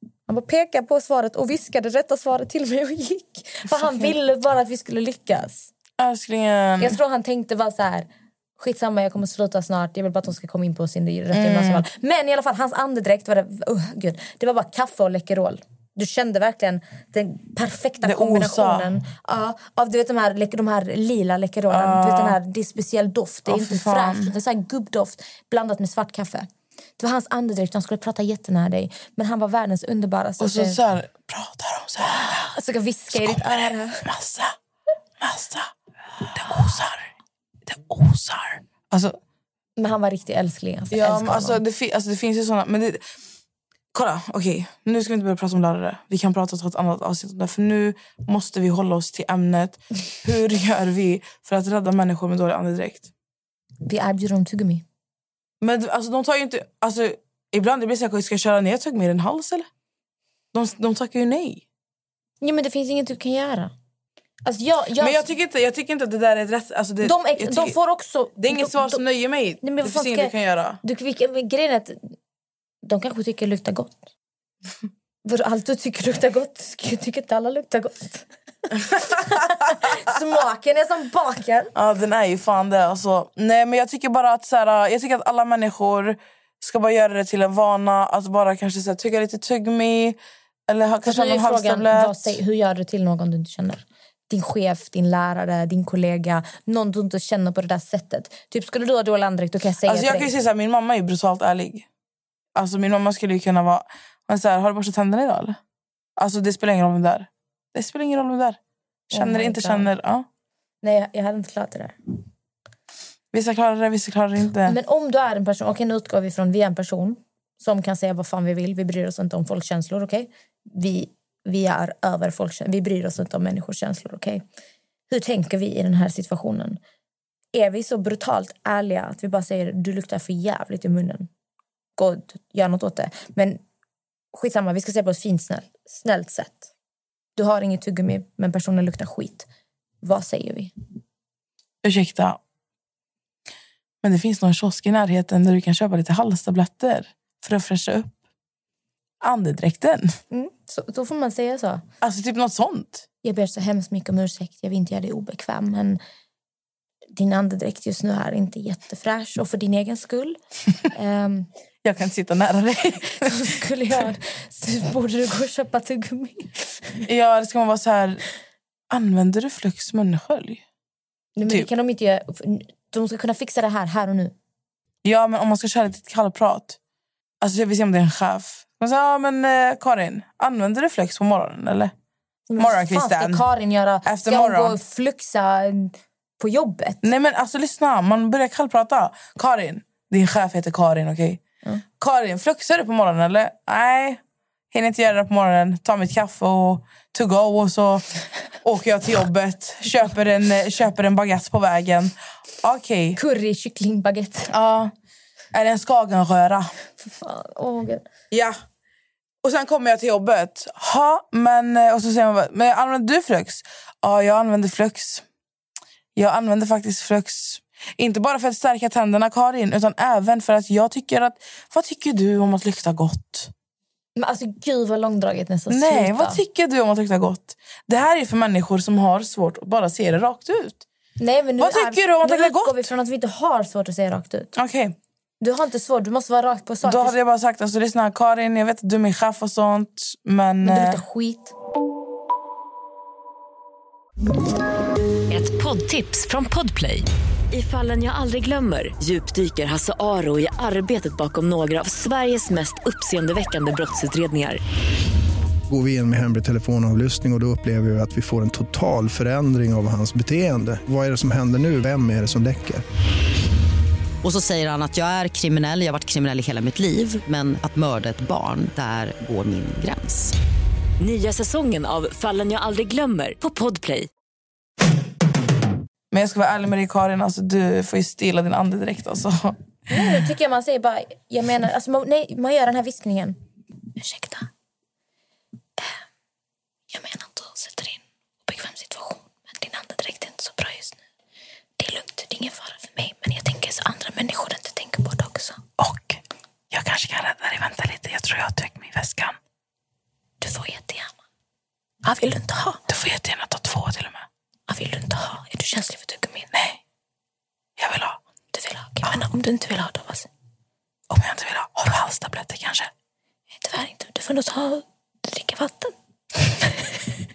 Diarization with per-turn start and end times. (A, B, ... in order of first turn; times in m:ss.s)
0:00.3-0:05.7 A
0:06.0-0:06.9 B
0:06.8-0:30.8 A
0:11.4-0:11.7 B
0:18.0-0:18.8 B
0:21.7-0:22.4 B
0:23.5-0:24.3 B
0:30.4-0:32.1 B
0:32.1-0:34.1 A
0:34.0-0:34.5 B
0:35.2-0:35.7 B
0:36.4-0:37.0 B
0:37.7-0:39.2 B
0:39.8-0:41.6 A
0:40.9-0:43.0 B
0:43.9-0:53.1 B
0:53.8-0:54.8 A
0:55.6-0:59.7 B
1:00.5-1:01.6 B
1:02.4-1:03.7 A
1:04.4-1:05.3 A
1:05.0-1:07.7 B
1:07.0-1:09.0 A
1:08.4-1:10.8 B
1:09.6-1:12.0 A
1:12.8-1:13.9 A
1:15.2-1:21.7 A
1:21.8-1:30.2 B
1:30.7-1:32.3 B
1:31.0-1:40.3 A
1:39.9-1:41.8 B
1:42.5-1:45.6 B
1:46.2-1:48.6 B
1:49.1-1:49.9 A
1:49.1-1:50.2 B
1:50.8-1:52.0 A
1:53.3-1:54.7 B
1:54.6-2:04.4 A
2:05.1-2:06.8 A
2:07.5-2:11.3 A
2:12.0-2:13.6 A
2:14.3-2:16.7 A
2:17.4-2:19.5 A
2:20.0-2:20.7 A
2:21.8-2:22.4 B
2:24.0-2:28.1 B
2:29.2-2:30.1 B
2:30.3-2:31.8 A
2:32.0-2:33.0 B
2:33.2-2:36.0 A
2:37.1-2:40.4 A
2:40.9-2:41.5 A
2:41.8-2:43.1 B
2:43.2-2:47.0 A
2:47.0-2:48.2 B
2:48.9-2:50.6 B
2:51.4-2:54.3 A
2:55.0-2:56.8 B
2:57.4-3:01.9 B
3:02.5-3:07.1 A
3:02.6-3:03.4 B
3:04.0-3:04.7 B
3:07.0-3:11.4 B
3:12.0-3:14.2 B
3:14.7-3:18.0 B
3:18.6-3:23.2 B
3:23.2-3:24.5 A
3:24.5-3:24.9 B
3:25.5-3:26.7 B
3:27.0-3:28.1 A
3:28.3-3:28.6 B
3:29.4-3:35.2 B
3:36.2-3:43.5 B
3:44.2-3:46.4 A
3:45.7-3:50.8 B
3:51.2-3:54.5 A
3:51.6-3:52.8 B
3:54.6-3:54.9 B
3:55.4-3:57.2 A
3:56.8-4:01.0 B
4:00.6-4:01.5 A
4:05.3-4:14.6 C
4:15.7-4:22.8 D
4:24.2-4:30.3 E
4:31.0-4:34.1 C
4:36.1-4:39.5 B
4:39.9-4:43.4 A
4:44.0-4:44.5 A
4:46.9-4:51.0 A
4:51.8-4:55.6 A
4:55.8-4:56.2 B
4:56.7-4:59.4 B
5:00.4-5:01.1 A
5:02.0-5:02.8 A
5:02.9-5:04.2 B
5:04.7-5:06.5 A
5:07.8-5:08.2 B
5:08.5-5:10.3 A
5:11.1-5:12.9 B
5:13.6-5:15.9 A